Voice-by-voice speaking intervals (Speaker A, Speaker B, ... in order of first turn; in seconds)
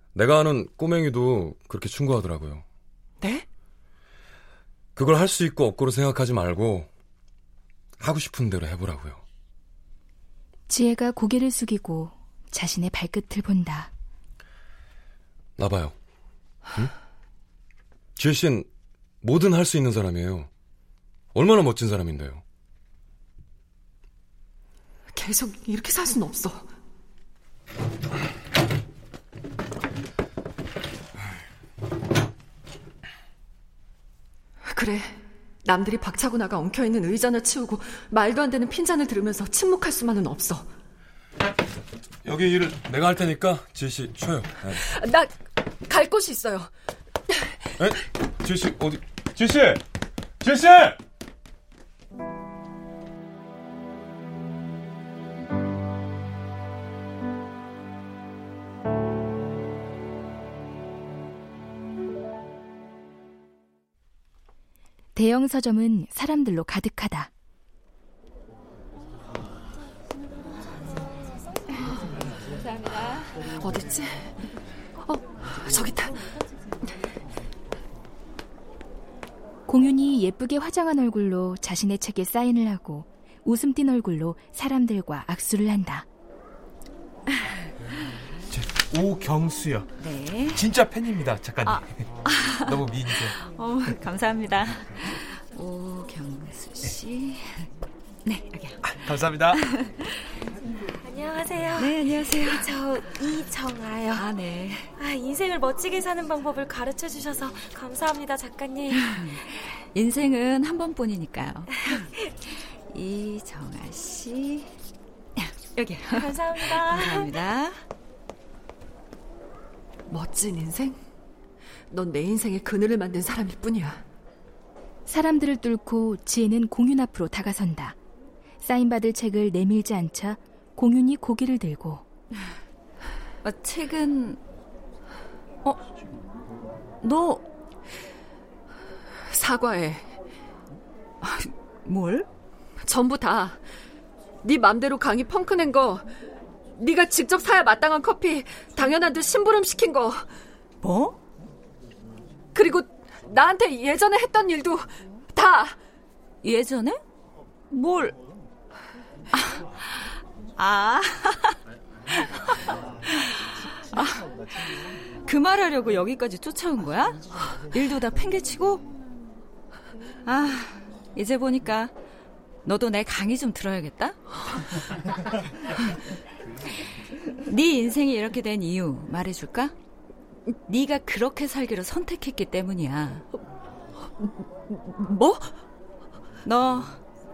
Speaker A: 0.1-2.6, 5.0-6.9, 8.0-9.2, 15.6-15.9, 18.2-18.7, 19.2-20.5, 21.3-22.4, 42.2-44.8, 47.8-49.8, 50.4-51.0
Speaker B: 10.7-13.9, 65.2-67.3, 79.7-86.1, 125.1-128.0, 128.6-132.1
Speaker C: 25.1-26.7, 34.7-40.7, 44.8-45.3, 45.9-46.7, 73.6-74.4, 75.0-76.2, 120.1-121.0, 121.9-124.0, 139.3-140.1, 142.8-143.6, 144.4-146.0, 146.8-150.3, 152.6-155.8, 184.7-185.5
Speaker D: 72.7-73.5, 90.0-90.8, 91.6-97.7, 98.3-100.1, 101.8-102.9, 104.1-104.9, 108.9-114.7, 115.4-117.8, 133.4-134.4, 137.0-137.4, 141.2-142.3, 150.8-151.2, 156.4-157.0, 157.7-158.2, 160.6-161.6, 162.2-168.8, 170.2-171.9, 172.7-174.4, 177.3-179.7, 180.7-183.2, 186.4-187.0
Speaker E: 89.5-89.8, 90.6-91.7, 92.7-93.3, 99.0-99.6
Speaker F: 101.0-104.2, 105.0-109.1, 116.1-117.4